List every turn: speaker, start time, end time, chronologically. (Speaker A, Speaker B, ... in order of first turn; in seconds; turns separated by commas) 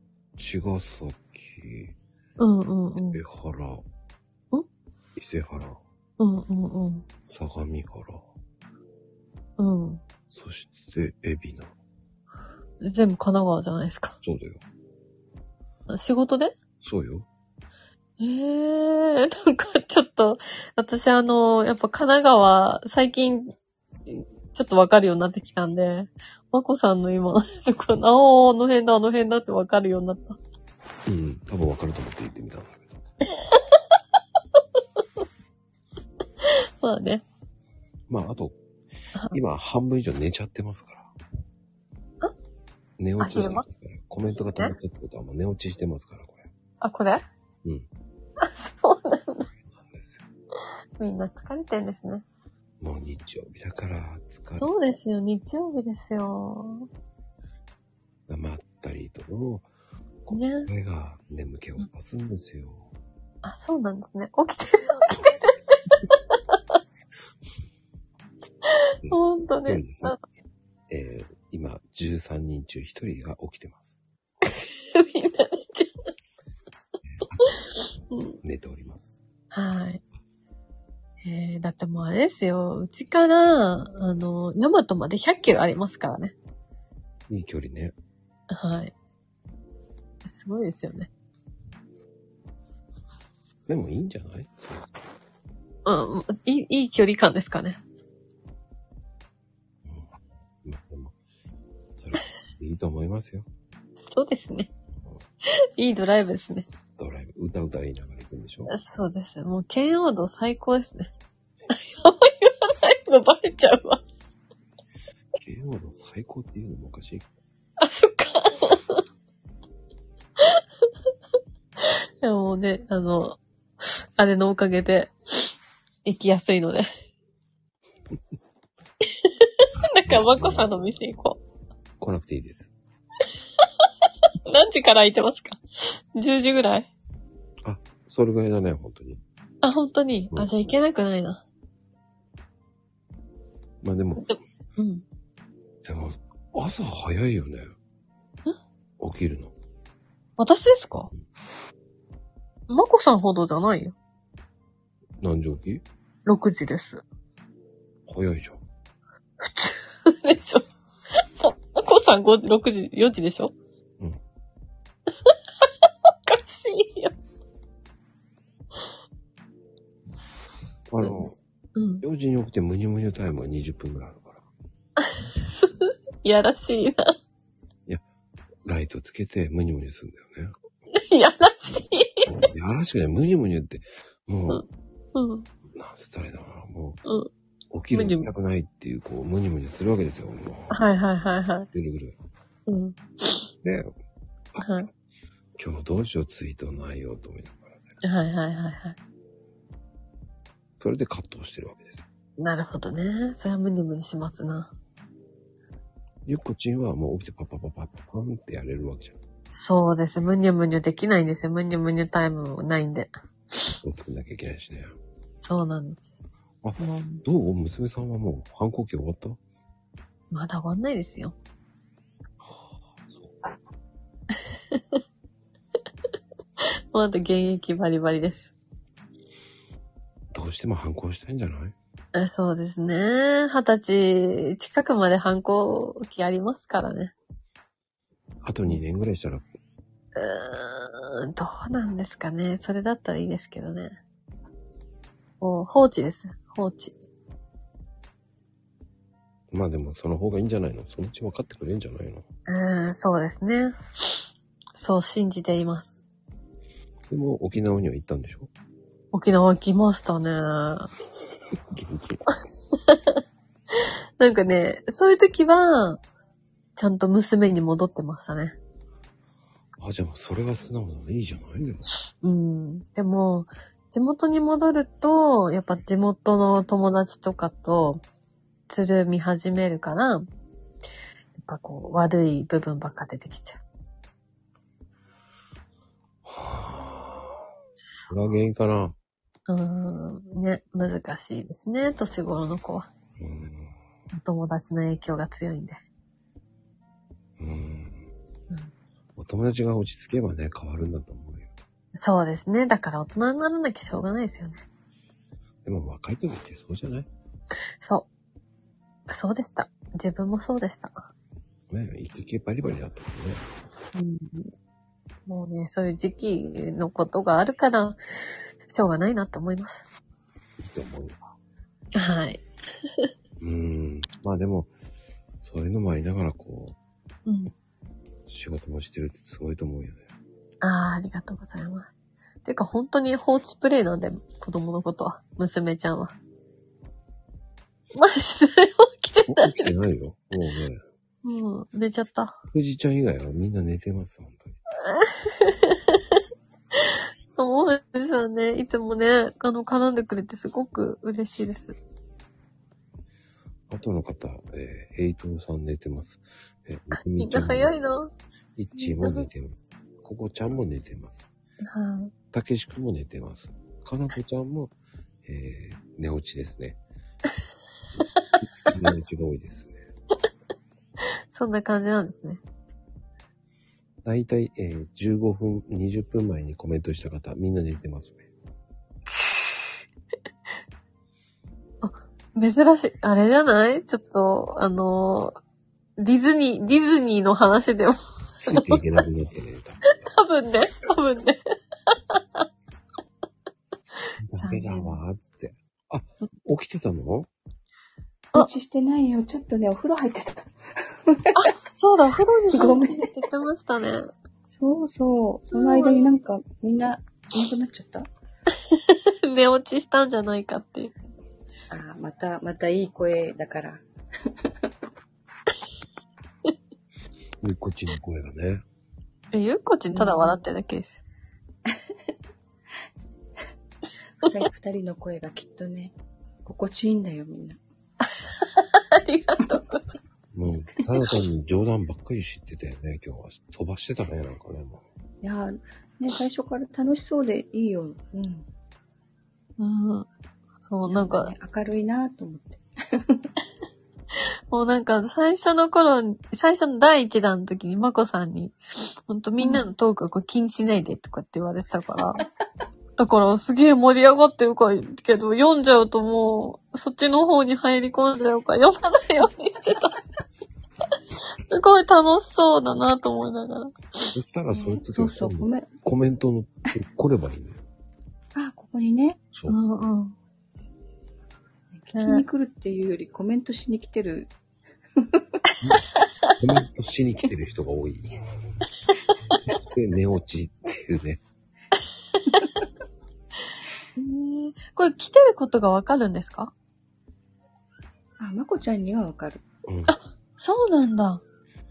Speaker A: 0.4-1.9, Speaker B: 2.4-3.2, Speaker A: 3.1-3.8, Speaker A: 5.2-5.8, Speaker B: 6.2-7.0, Speaker A: 7.3-8.2, Speaker B: 9.6-10.0, Speaker A: 10.3-11.7, Speaker B: 12.8-14.2, Speaker A: 14.2-14.6, Speaker B: 15.9-16.5, Speaker A: 16.8-17.3, Speaker B: 18.2-23.5, Speaker B: 24.1-30.4, Speaker A: 31.1-33.0, Speaker B: 33.3-33.8, Speaker B: 36.4-37.2, Speaker A: 38.1-38.6, Speaker A: 39.3-41.1, Speaker A: 43.0-46.5, Speaker B: 43.2-43.6, Speaker B: 46.8-47.2, Speaker B: 48.4-49.5, Speaker A: 49.7-50.2, Speaker B: 51.0-52.2, Speaker A: 52.8-54.7, Speaker B: 54.6-56.9, Speaker A: 58.3-59.7, Speaker A: 60.3-62.9, Speaker B: 60.3-60.7, Speaker B: 63.4-65.8, Speaker B: 68.7-70.2, Speaker A: 69.0-70.2, Speaker A: 70.9-74.0, Speaker B: 74.5-75.9, Speaker A: 77.2-77.5, Speaker B: 78.1-78.4, Speaker A: 78.4-79.2, Speaker B: 79.5-80.0, Speaker B: 81.2-86.3, Speaker A: 87.3-87.9, Speaker B: 88.5-88.9, Speaker B: 90.3-91.1, Speaker A: 93.7-94.9, Speaker B: 95.8-97.8, Speaker A: 99.8-101.2, Speaker A: 102.0-103.5, Speaker B: 104.1-104.7, Speaker A: 105.0-105.2, Speaker B: 105.8-106.7, Speaker A: 107.0-108.7, Speaker B: 108.7-111.1, Speaker B: 111.7-114.0, Speaker A: 115.3-117.3, Speaker B: 117.8-119.0, Speaker B: 121.8-125.1, Speaker B: 126.0-126.9, Speaker B: 129.2-131.4, Speaker A: 130.1-130.7, Speaker A: 132.0-132.7, Speaker B: 134.5-135.6, Speaker B: 136.2-136.9, Speaker A: 137.6-139.2, Speaker B: 139.6-141.4, Speaker A: 143.8-144.2, Speaker B: 144.2-145.0, Speaker A: 145.8-147.7, Speaker A: 149.0-149.5, Speaker B: 150.4-151.1, Speaker B: 152.7-153.9, Speaker A: 155.2-155.8, Speaker B: 156.3-157.0, Speaker A: 158.1-158.6, Speaker B: 159.4-160.7, Speaker B: 161.4-163.5, Speaker B: 166.3-167.1, Speaker A: 170.9-171.3, Speaker B: 171.0-172.0, Speaker A: 172.0-174.4, Speaker B: 175.0-177.1, Speaker A: 178.6-180.6, Speaker B: 180.9-182.3, Speaker A: 182.3-184.7, Speaker B: 184.5-185.5, Speaker A: 185.7-187.0, Speaker B: 187.1-187.3, Speaker A: 187.7-190.8, Speaker B: 187.9-188.3, Speaker B: 190.7-191.7, Speaker A: 191.7-192.2, Speaker B: 192.7-193.5, Speaker A: 193.6-193.9, Speaker B: 194.6-194.9, Speaker A: 195.6-197.9, Speaker B: 198.0-199.0, Speaker A: 200.8-202.1, Speaker B: 202.4-204.7, Speaker A: 206.3-209.2, Speaker B: 209.4-213.1, Speaker A: 213.8-214.9, Speaker B: 215.4-216.1, Speaker A: 216.6-219.4, Speaker B: 216.8-217.2, Speaker B: 220.3-221.3, Speaker A: 222.4-223.4, Speaker B: 224.7-225.0, Speaker B: 226.6-228.5, Speaker A: 230.3-231.8, Speaker B: 232.2-237.1, Speaker A: 238.4-239.5, Speaker B: 240.2-244.0, Speaker B: 245.4-247.0, Speaker A: 249.5-252.2, Speaker B: 252.5-254.2, Speaker B: 254.8-256.0, Speaker A: 257.1-258.5, Speaker B: 259.1-260.9, Speaker A: 261.7-262.2, Speaker B: 262.9-263.2, Speaker B: 264.2-266.0, Speaker B: 266.8-268.6, Speaker A: 269.8-271.9, Speaker B: 272.2-278.0, Speaker B: 278.7-280.3, Speaker B: 281.4-283.6, Speaker A: 286.2-287.4, Speaker B: 287.8-288.2, Speaker A: 288.1-288.9, Speaker B: 289.5-292.9, Speaker A: 293.2-293.7, Speaker B: 294.1-295.8, Speaker A: 297.4-298.1, Speaker A: 299.2-301.6, Speaker B: 301.9-304.6, Speaker A: 305.6-307.1, Speaker B: 307.8-308.1, Speaker B: 309.1-311.1, Speaker A: 311.7-313.4, Speaker B: 313.9-314.5, Speaker B: 315.3-319.8, Speaker A: 320.6-321.3, Speaker B: 321.9-322.4, Speaker A: 323.4-324.7, Speaker A: 325.4-326.8, Speaker B: 327.3-327.5, Speaker A: 328.3-330.1, Speaker B: 330.6-331.9, Speaker B: 332.4-336.1, Speaker B: 337.9-339.7, Speaker A: 339.3-340.8, Speaker B: 341.2-342.4, Speaker A: 342.5-344.6, Speaker B: 344.8-346.0, Speaker B: 346.8-351.8, Speaker A: 353.7-357.7, Speaker B: 357.2-358.1, Speaker A: 358.6-361.3, Speaker B: 358.8-359.3, Speaker B: 361.7-362.1, Speaker A: 362.3-364.7, Speaker A: 365.2-366.8, Speaker A: 368.4-369.8, Speaker B: 371.3-372.4, Speaker A: 374.0-378.3, Speaker B: 381.8-385.4, Speaker B: 386.0-388.8, Speaker A: 388.4-390.0, Speaker B: 389.9-391.4, Speaker B: 391.9-392.4, Speaker A: 394.2-397.3, Speaker B: 394.4-395.0, Speaker C: 398.3-400.5, Speaker C: 401.1-401.3, Speaker B: 401.4-404.1, Speaker C: 402.5-403.1, Speaker C: 404.5-408.1, Speaker B: 405.5-406.1, Speaker B: 408.7-411.0, Speaker C: 411.7-413.8, Speaker A: 417.4-418.6, Speaker B: 419.3-421.0, Speaker C: 419.9-420.4, Speaker C: 424.2-427.6, Speaker B: 428.1-430.0, Speaker A: 430.3-434.8, Speaker C: 435.2-438.5, Speaker B: 439.6-440.1, Speaker B: 440.6-441.3, Speaker C: 440.9-443.3, Speaker B: 444.5-448.6, Speaker B: 449.1-452.3, Speaker C: 449.4-449.7, Speaker B: 453.0-460.0, Speaker B: 461.4-463.8, Speaker A: 464.1-467.6, Speaker C: 464.5-465.7, Speaker C: 468.4-469.2, Speaker B: 469.5-470.1, Speaker C: 471.7-474.3, Speaker B: 471.9-472.2, Speaker A: 476.4-478.2, Speaker A: 479.5-481.2, Speaker B: 484.0-486.5, Speaker C: 488.2-489.4, Speaker A: 489.7-490.0, Speaker B: 489.9-491.2